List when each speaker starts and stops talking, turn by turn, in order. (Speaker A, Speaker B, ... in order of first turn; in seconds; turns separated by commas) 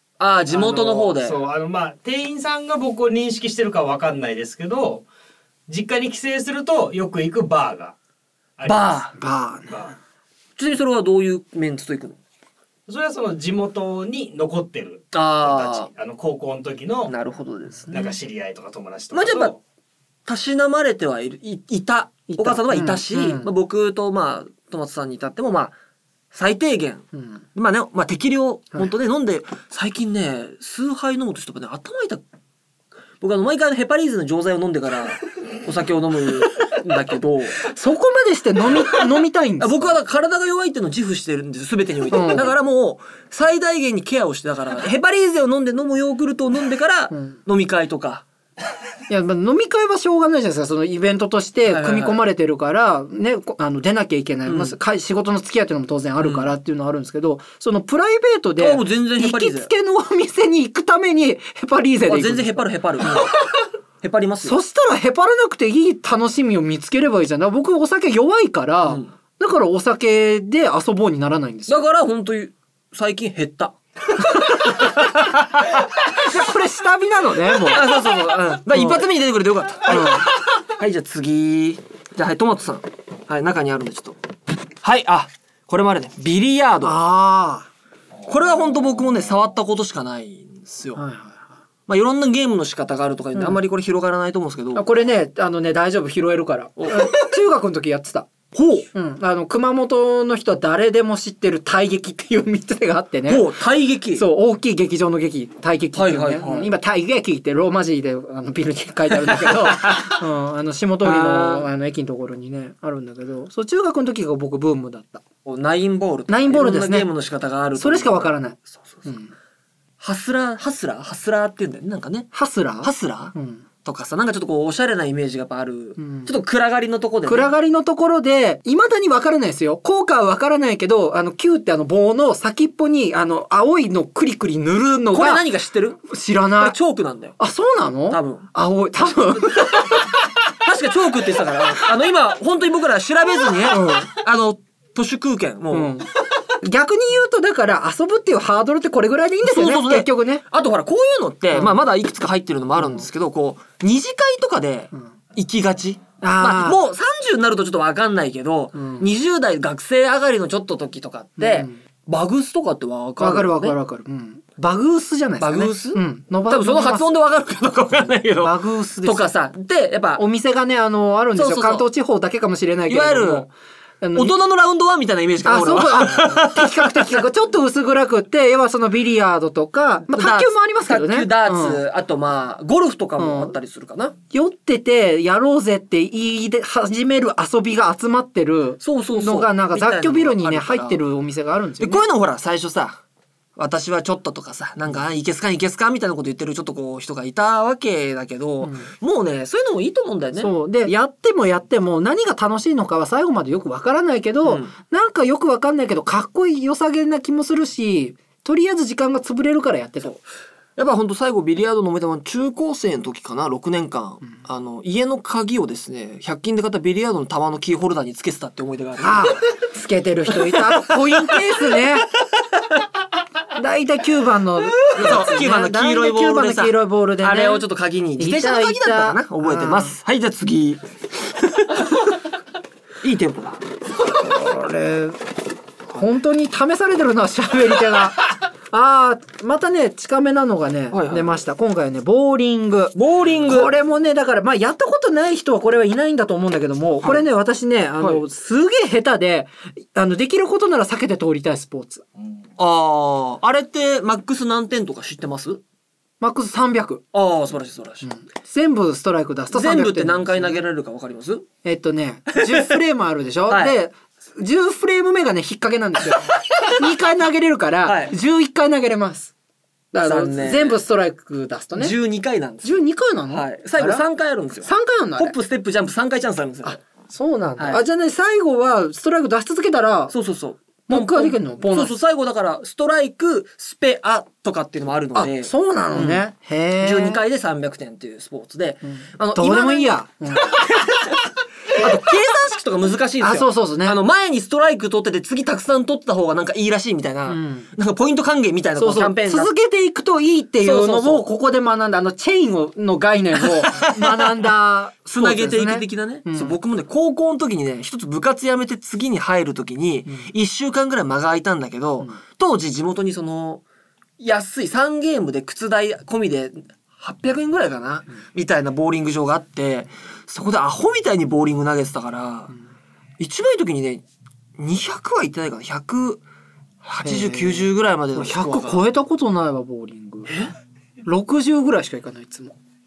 Speaker A: 0.2-1.4, Speaker B: 0.5-5.0, Speaker B: 5.7-8.0, Speaker B: 8.6-9.1, Speaker A: 8.6-9.1, Speaker C: 9.2-9.8, Speaker B: 9.7-9.9, Speaker A: 10.6-12.2, Speaker B: 12.9-17.1, Speaker A: 15.1-15.9, Speaker A: 17.1-18.2, Speaker B: 17.9-19.6, Speaker A: 19.1-19.5, Speaker A: 20.2-25.7, Speaker C: 22.3-23.5, Speaker A: 26.3-32.2, Speaker C: 27.1-27.4, Speaker A: 33.2-37.6, Speaker C: 37.6-40.0, Speaker A: 39.6-48.2, Speaker C: 42.1-42.5, Speaker C: 47.1-47.4, Speaker C: 49.1-62.7, Speaker A: 51.6-52.2, Speaker A: 54.5-54.8, Speaker A: 56.2-56.5, Speaker A: 58.6-59.7, Speaker A: 62.1-63.3, Speaker A: 64.0-64.6, Speaker C: 64.4-71.8, Speaker A: 71.7-75.8, Speaker C: 76.0-77.9, Speaker A: 77.6-84.2, Speaker C: 79.9-80.3, Speaker A: 84.8-87.0, Speaker C: 86.8-87.7, Speaker A: 88.2-91.0, Speaker C: 90.9-91.5, Speaker A: 91.9-94.8, Speaker C: 94.7-98.3, Speaker A: 96.8-97.1, Speaker A: 98.5-98.9, Speaker C: 98.9-103.5, Speaker A: 103.3-104.2, Speaker C: 104.1-115.2, Speaker A: 105.9-106.8, Speaker A: 109.3-110.0, Speaker A: 111.0-111.7, Speaker A: 115.4-119.0, Speaker C: 116.3-117.1, Speaker C: 117.8-119.3, Speaker A: 120.0-122.3, Speaker C: 122.3-123.6, Speaker A: 122.8-127.5, Speaker C: 126.0-126.3, Speaker C: 127.2-135.5, Speaker A: 135.1-136.1, Speaker C: 136.1-136.7, Speaker A: 136.6-137.4, Speaker C: 137.4-140.1, Speaker A: 138.1-138.4, Speaker A: 140.6-145.9, Speaker C: 143.7-144.1, Speaker C: 145.7-146.1, Speaker C: 146.6-150.4, Speaker A: 149.4-163.8, Speaker C: 152.8-153.1, Speaker C: 156.2-156.8, Speaker C: 158.7-159.1, Speaker C: 161.4-161.8, Speaker C: 163.2-167.1, Speaker A: 165.4-170.2, Speaker C: 168.4-169.3, Speaker C: 170.2-174.3, Speaker A: 171.3-171.9, Speaker A: 172.9-173.5, Speaker A: 174.1-177.3, Speaker C: 175.4-181.8, Speaker A: 180.1-184.1, Speaker C: 183.2-183.5, Speaker C: 184.3-192.0, Speaker A: 188.8-191.0, Speaker A: 191.8-193.0, Speaker A: 193.6-200.5, Speaker C: 198.6-198.9, Speaker C: 200.3-210.2, Speaker A: 204.4-204.7, Speaker A: 210.8-219.4, Speaker C: 219.0-222.1, Speaker A: 220.3-221.5, Speaker C: 223.5-227.7, Speaker A: 224.9-232.1, Speaker C: 228.2-229.9, Speaker A: 233.0-233.6, Speaker C: 234.1-235.2, Speaker C: 235.9-252.0, Speaker A: 240.9-241.4, Speaker A: 242.9-243.7, Speaker A: 252.6-255.6, Speaker C: 256.2-257.0, Speaker A: 257.1-258.1, Speaker C: 258.0-260.6, Speaker A: 259.5-261.5, Speaker C: 261.6-269.3, Speaker A: 263.5-263.8, Speaker A: 267.8-268.1, Speaker C: 269.9-271.9, Speaker A: 270.0-270.8, Speaker A: 271.8-276.8, Speaker C: 272.6-274.0, Speaker C: 274.6-275.3, Speaker C: 276.6-280.1, Speaker A: 277.6-277.8, Speaker A: 280.1-286.2, Speaker C: 280.9-281.9, Speaker C: 285.1-287.2, Speaker A: 286.8-299.5, Speaker C: 288.9-290.6, Speaker C: 293.2-294.0, Speaker C: 297.3-297.7, Speaker C: 298.8-306.6, Speaker A: 300.6-301.3, Speaker A: 303.4-304.5, Speaker A: 305.1-313.6, Speaker A: 314.2-322.5, Speaker A: 323.2-324.0, Speaker A: 324.6-326.2, Speaker A: 326.8-328.9, Speaker C: 327.0-330.3, Speaker A: 330.3-330.5, Speaker C: 331.0-332.6